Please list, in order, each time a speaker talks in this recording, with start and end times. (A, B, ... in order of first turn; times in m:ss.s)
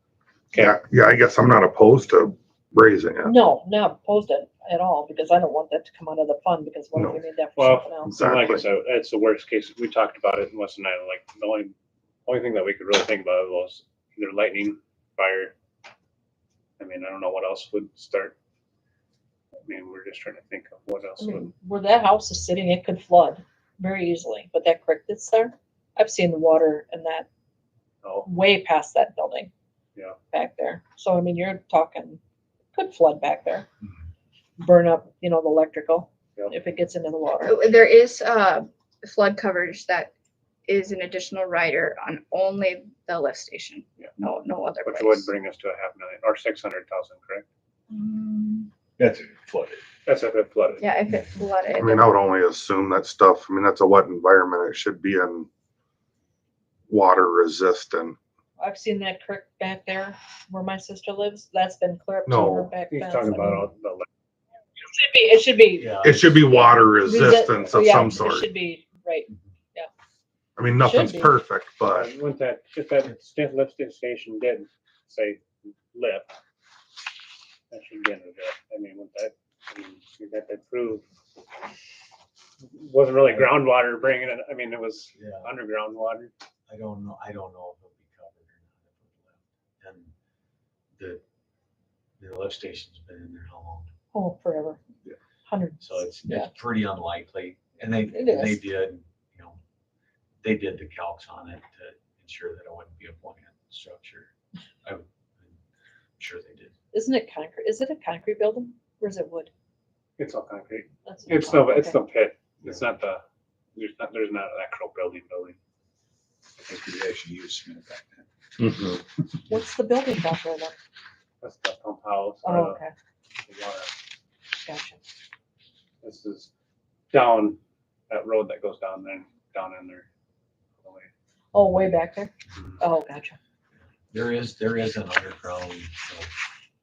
0:00.5-0:03.3 A
0:03.2-0:08.2 B
0:07.0-0:07.2 A
0:07.6-0:11.7 C
0:08.1-0:08.6 A
0:12.2-0:15.5 C
0:16.8-0:18.3 C
0:19.7-0:21.5 C
0:21.2-0:27.3 B
0:28.0-0:28.3 C
0:28.2-0:29.5 B
0:30.3-0:32.2 B
0:32.7-0:33.7 B
0:34.6-0:37.8 B
0:37.4-0:40.1 D
0:40.7-0:45.3 D
0:44.8-0:47.4 C
0:47.9-0:48.7 D
0:49.0-0:49.8 E
0:50.0-0:50.9 C
0:50.8-0:52.1 D
0:51.8-0:55.5 A
0:56.9-0:58.2 A
0:58.6-1:03.7 B
1:02.3-1:02.7 A
1:02.9-1:04.0 C
1:04.8-1:06.0 B
1:05.7-1:06.7 E
1:06.0-1:08.5 A
1:07.0-1:09.9 B
1:10.6-1:12.1 A
1:10.8-1:11.4 B
1:11.9-1:16.3 C
1:17.7-1:21.0 C
1:22.6-1:26.3 C
1:23.3-1:23.6 E
1:25.1-1:25.5 E
1:26.7-1:30.1 E
1:32.2-1:33.9 E
1:34.1-1:34.8 B
1:35.4-1:36.5 B
1:35.8-1:39.6 E
1:38.1-1:38.6 B
1:40.4-1:44.3 E
1:44.8-1:45.6 E
1:46.2-1:46.7 E
1:46.9-1:49.5 B
1:50.2-1:53.2 C
1:51.0-1:52.0 B
1:53.7-1:55.6 C
1:58.6-1:59.0 A
1:59.5-2:00.7 B
2:01.4-2:02.8 C
2:02.4-2:02.9 B
2:03.4-2:03.9 C
2:04.6-2:05.0 B
2:06.0-2:06.5 C
2:07.1-2:07.6 C
2:08.1-2:10.1 C
2:10.8-2:11.1 C
2:11.5-2:13.4 B
2:14.1-2:16.3 E